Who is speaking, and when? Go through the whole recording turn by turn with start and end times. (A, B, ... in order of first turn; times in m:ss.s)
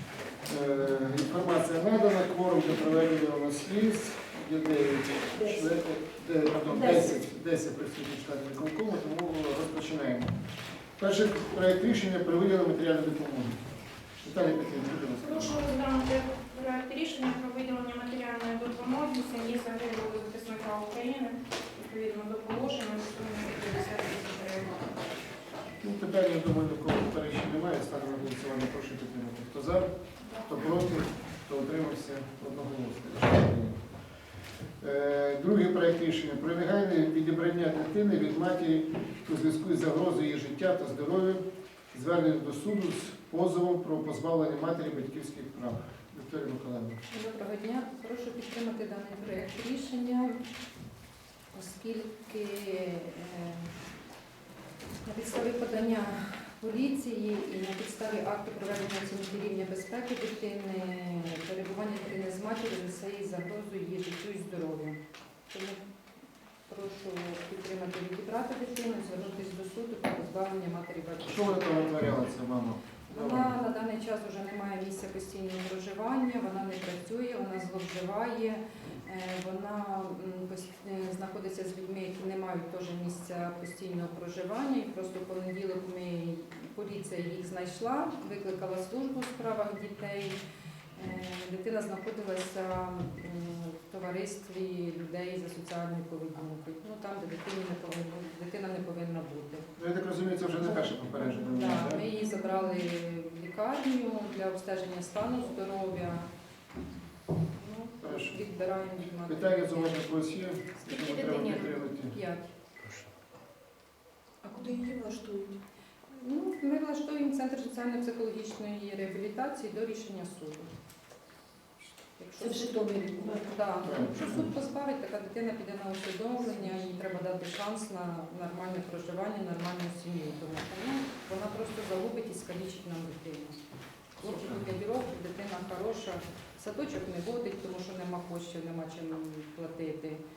0:00.4-0:10.4 A
0:11.0-0:13.7 A
0:14.2-0:15.6 A
0:15.2-0:24.9 B
0:25.8-0:33.8 A
0:34.8-0:47.0 A
0:47.1-0:50.4 C
0:51.5-0:53.7 C
0:55.0-1:05.0 C
1:05.5-1:05.8 C
1:06.7-1:12.0 C
1:11.3-1:13.5 A
1:13.1-1:30.4 C
1:31.0-1:39.7 C
1:39.8-1:42.1 A
1:41.3-1:46.3 C
1:47.5-1:50.1 C
1:48.0-1:48.4 A
1:49.2-1:52.2 A
1:50.8-1:52.5 C
1:54.5-1:55.6 D
1:56.1-2:00.7 C
2:02.2-2:13.6 C
2:02.4-2:03.5 D
2:03.8-2:04.5 A
2:14.2-2:20.2 C
2:14.2-2:14.6 A